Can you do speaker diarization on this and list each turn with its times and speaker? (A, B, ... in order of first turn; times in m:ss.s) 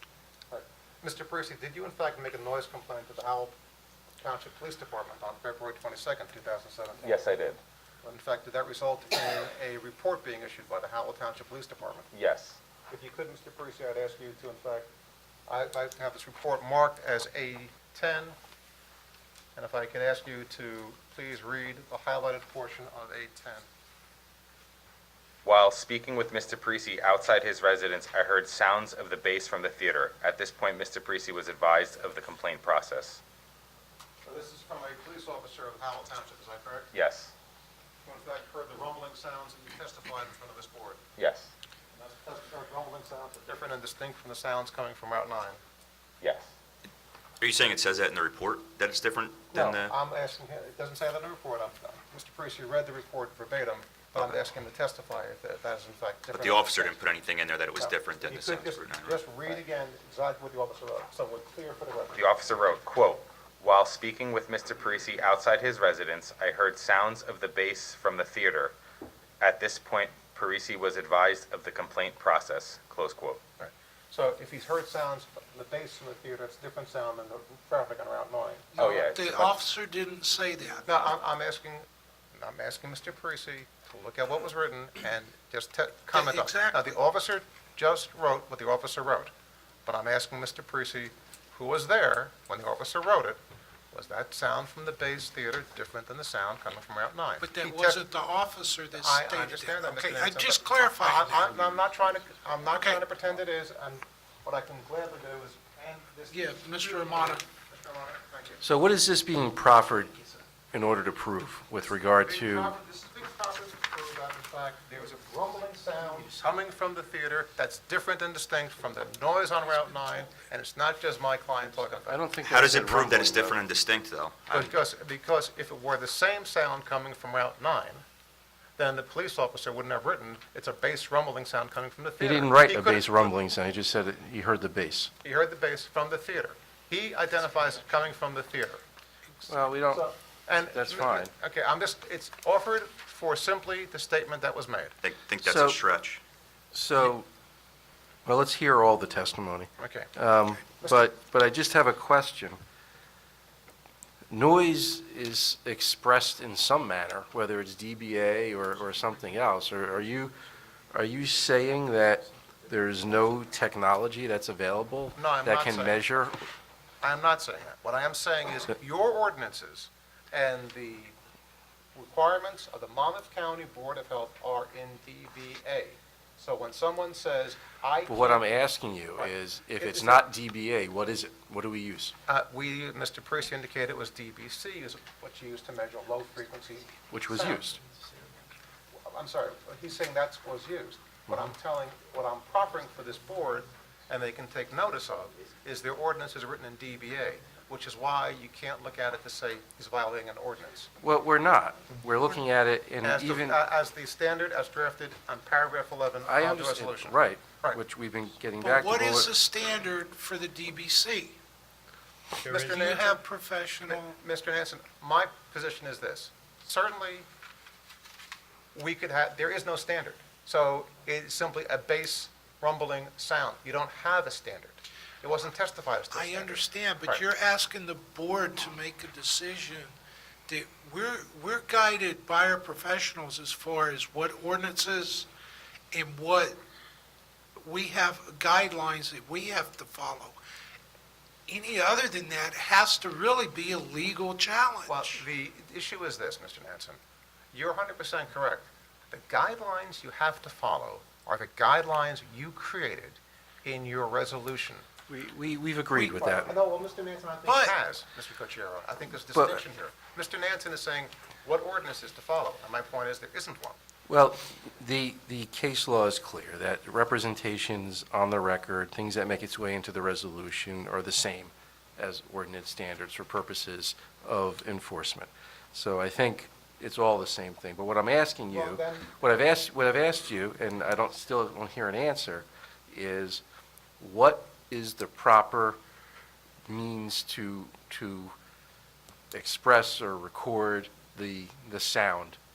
0:00.5-0:03.6 A
0:04.2-0:07.4 A
0:07.0-0:07.6 B
0:08.0-0:12.1 A
0:12.1-0:12.6 B
0:12.9-0:14.9 A
0:15.5-0:18.4 A
0:19.6-0:23.7 A
0:25.4-0:33.2 B
0:34.2-0:36.9 A
0:36.9-0:37.3 B
0:38.0-0:41.0 A
0:41.2-0:41.5 B
0:41.9-0:45.6 A
0:46.2-0:46.5 B
0:47.4-0:50.0 C
0:49.5-0:57.0 A
0:56.3-0:59.6 C
0:57.8-1:02.2 A
1:02.1-1:08.8 B
1:09.4-1:13.4 B
1:13.6-1:18.7 A
1:18.7-1:20.9 D
1:18.8-1:19.6 B
1:20.9-1:29.3 A
1:26.1-1:26.9 D
1:29.9-1:33.4 A
1:33.9-1:38.0 A
1:37.4-1:41.5 D
1:39.0-1:48.6 A
1:42.6-1:43.0 D
1:46.3-1:47.4 D
1:48.6-1:52.8 E
1:52.2-2:02.2 A
2:02.0-2:03.6 E
2:02.4-2:04.8 C
2:04.5-2:08.0 A
2:08.8-2:13.2 A
2:12.2-2:15.1 E
2:15.2-2:18.8 A
2:19.5-2:20.1 E
2:19.9-2:25.0 A
2:20.6-2:21.3 E
2:25.0-2:26.2 C
2:25.4-2:25.8 E
2:26.7-2:27.3 E
2:28.2-2:32.6 E
2:29.8-2:30.1 A
2:34.3-2:40.4 E
2:40.9-2:46.4 E
2:45.2-2:46.1 A
2:47.0-2:51.2 A
2:52.0-2:58.5 A
2:58.1-3:02.1 E
2:59.2-3:00.3 A
3:02.3-3:07.8 A
3:07.1-3:07.8 E
3:09.0-3:20.9 A
3:21.0-3:23.6 E
3:23.0-3:27.8 A
3:26.3-3:29.4 E
3:28.6-3:31.4 D
3:32.4-3:33.2 A
3:32.5-3:34.2 D
3:33.9-3:37.3 A
3:38.7-3:47.2 A
3:46.1-3:49.9 D
3:50.5-3:55.3 D
3:55.9-3:56.6 D
3:57.6-4:00.4 D
4:01.5-4:05.2 D
4:04.9-4:07.0 A
4:07.5-4:14.9 A
4:15.1-4:16.5 E
4:15.9-4:23.8 A
4:17.4-4:17.8 D
4:19.3-4:19.6 E
4:24.1-4:43.4 E
4:38.5-4:39.1 A
4:44.0-4:45.8 E
4:46.7-4:48.3 E
4:49.3-4:52.4 E